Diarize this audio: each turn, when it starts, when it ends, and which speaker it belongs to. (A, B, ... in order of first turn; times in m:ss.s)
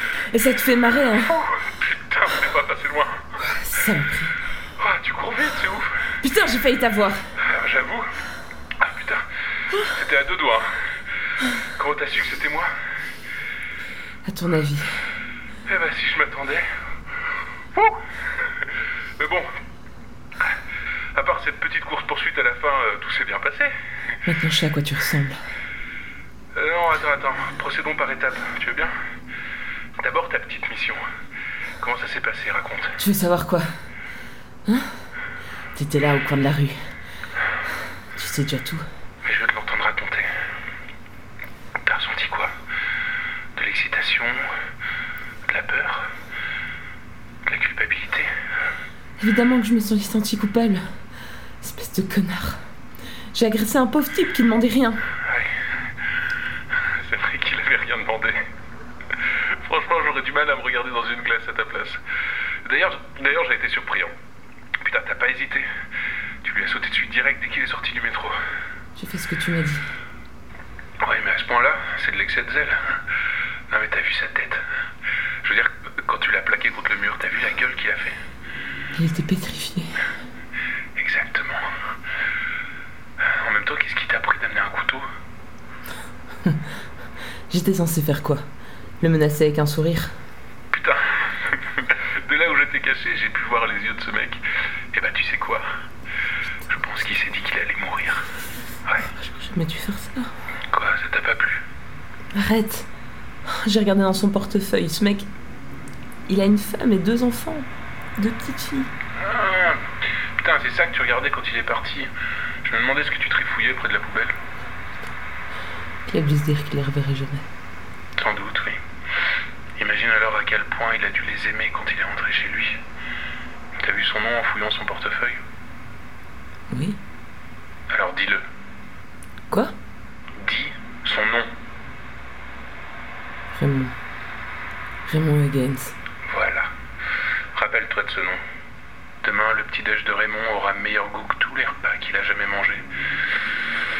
0:00.3-0:01.4 A
0:01.2-0:03.2 B
0:03.4-0:04.4 A
0:04.8-0:06.1 B
0:06.2-0:07.2 A
0:07.4-0:08.1 B
0:08.8-0:10.7 B
0:11.6-0:12.7 B
0:14.2-0:14.9 A
0:15.6-0:16.6 B
0:17.7-0:18.6 B
0:19.2-0:19.5 B
0:21.1-0:23.7 B
0:24.2-0:25.4 A
0:26.5-0:28.9 B
0:30.0-0:31.0 B
0:31.8-0:33.0 B
0:33.0-0:33.7 A
0:34.6-0:34.9 A
0:35.7-0:36.8 A
0:38.2-0:38.8 A
0:39.2-0:40.3 B
0:41.8-0:42.5 B
0:43.5-0:44.4 B
0:45.4-0:46.1 B
0:47.4-0:48.3 B
0:49.2-0:50.8 A
0:51.6-0:52.6 A
0:53.3-0:55.0 A
0:56.7-0:58.4 B
0:59.2-1:02.0 B
1:02.6-1:04.1 B
1:04.8-1:05.7 B
1:06.4-1:08.4 B
1:09.0-1:09.9 A
1:11.0-1:13.0 B
1:13.7-1:14.6 B
1:15.4-1:18.2 B
1:18.9-1:20.0 A
1:21.0-1:21.6 B
1:23.2-1:25.0 B
1:27.5-1:28.4 A
1:29.0-1:30.1 A
1:30.7-1:35.6 B
1:36.6-1:38.3 B
1:39.0-1:40.3 A
1:40.7-1:41.6 B
1:42.3-1:42.9 A
1:43.4-1:45.3 A
1:46.3-1:48.9 A
1:49.2-1:49.8 B
1:50.4-1:52.1 B
1:52.6-1:54.4 B
1:56.1-1:57.5 A
1:58.2-1:58.8 B
1:59.8-2:02.8 B
2:03.8-2:05.4 B
2:06.7-2:07.0 A
2:07.9-2:08.4 B
2:09.5-2:09.7 A
2:10.4-2:11.5 B
2:13.5-2:13.9 A
2:15.0-2:16.0 A
2:16.3-2:16.7 B
2:17.5-2:18.4 B
2:19.2-2:22.8 B